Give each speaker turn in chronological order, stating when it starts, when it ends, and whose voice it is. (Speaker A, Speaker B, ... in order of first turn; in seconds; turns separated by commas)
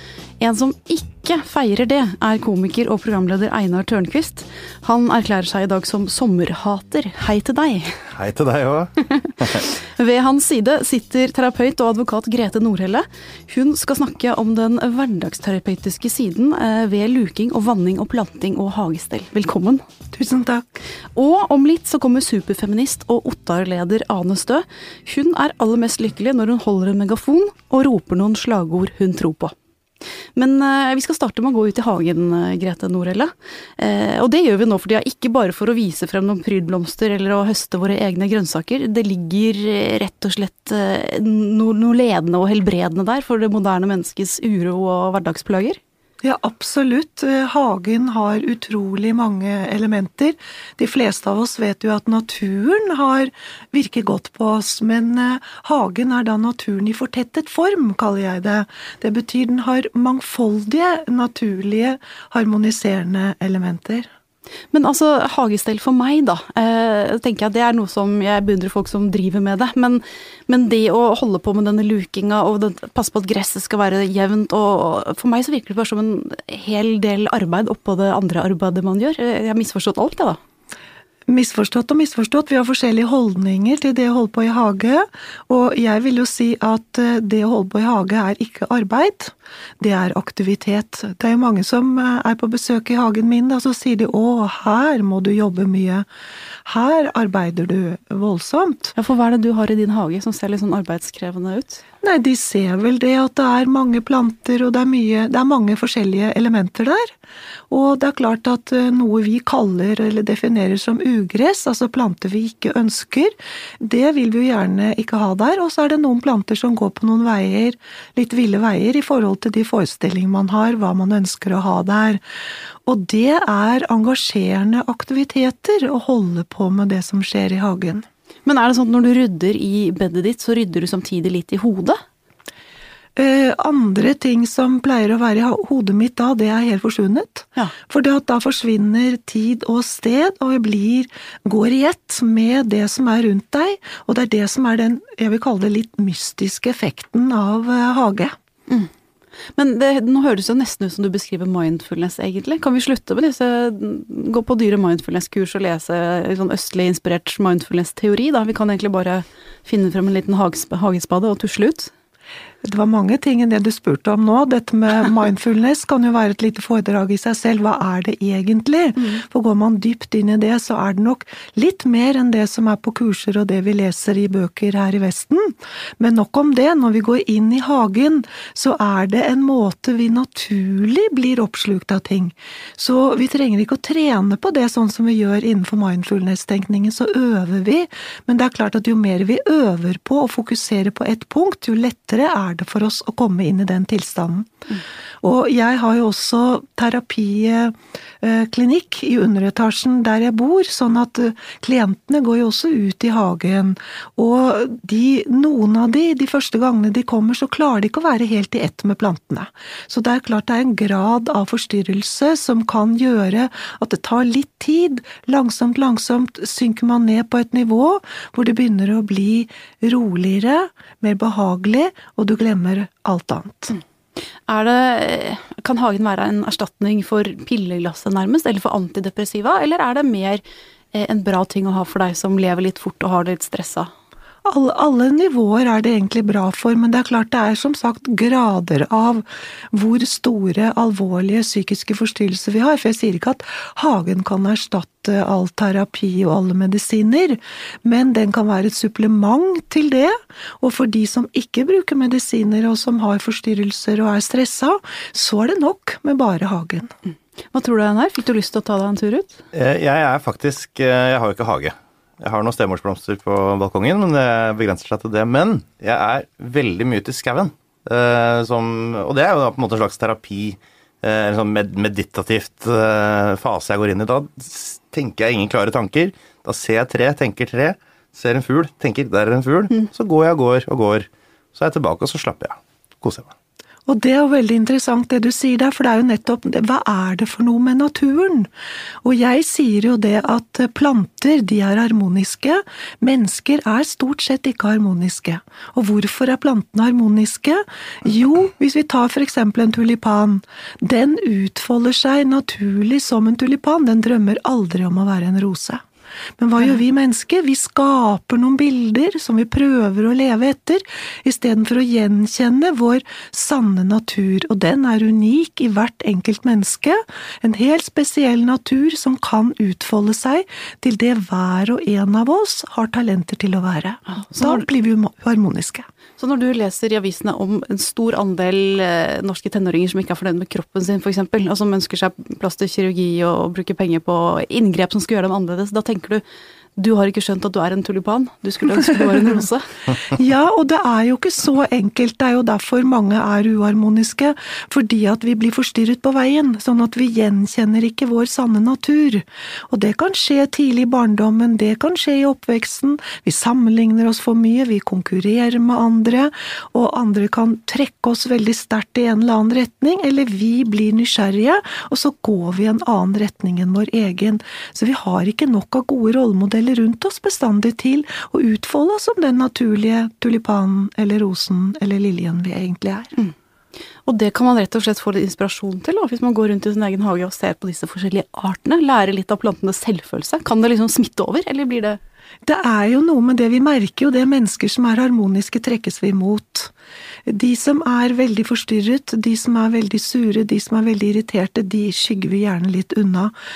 Speaker A: 0.4-8.0, Speaker B: 8.1-9.6, Speaker A: 9.2-19.8, Speaker C: 20.1-20.8, Speaker A: 21.1-29.5, Speaker A: 30.4-45.8, Speaker C: 46.2-64.1, Speaker A: 64.7-80.4, Speaker C: 81.3-96.0, Speaker C: 96.7-98.9, Speaker A: 99.0-101.8, Speaker C: 102.0-107.1, Speaker C: 107.7-122.2, Speaker C: 122.8-128.0, Speaker A: 128.4-132.0, Speaker C: 133.2-148.3, Speaker A: 149.6-161.9, Speaker C: 162.6-194.5, Speaker C: 195.2-223.8, Speaker A: 224.5-230.4, Speaker A: 230.9-233.9, Speaker C: 234.4-256.9, Speaker A: 257.5-259.4, Speaker B: 259.5-283.3, Speaker C: 283.9-288.5, Speaker C: 289.0-305.8, Speaker C: 306.4-325.9, Speaker A: 324.1-324.6, Speaker A: 326.2-336.2, Speaker A: 336.8-339.6, Speaker C: 340.1-373.1, Speaker A: 374.1-382.0, Speaker C: 382.4-386.7, Speaker C: 387.2-393.3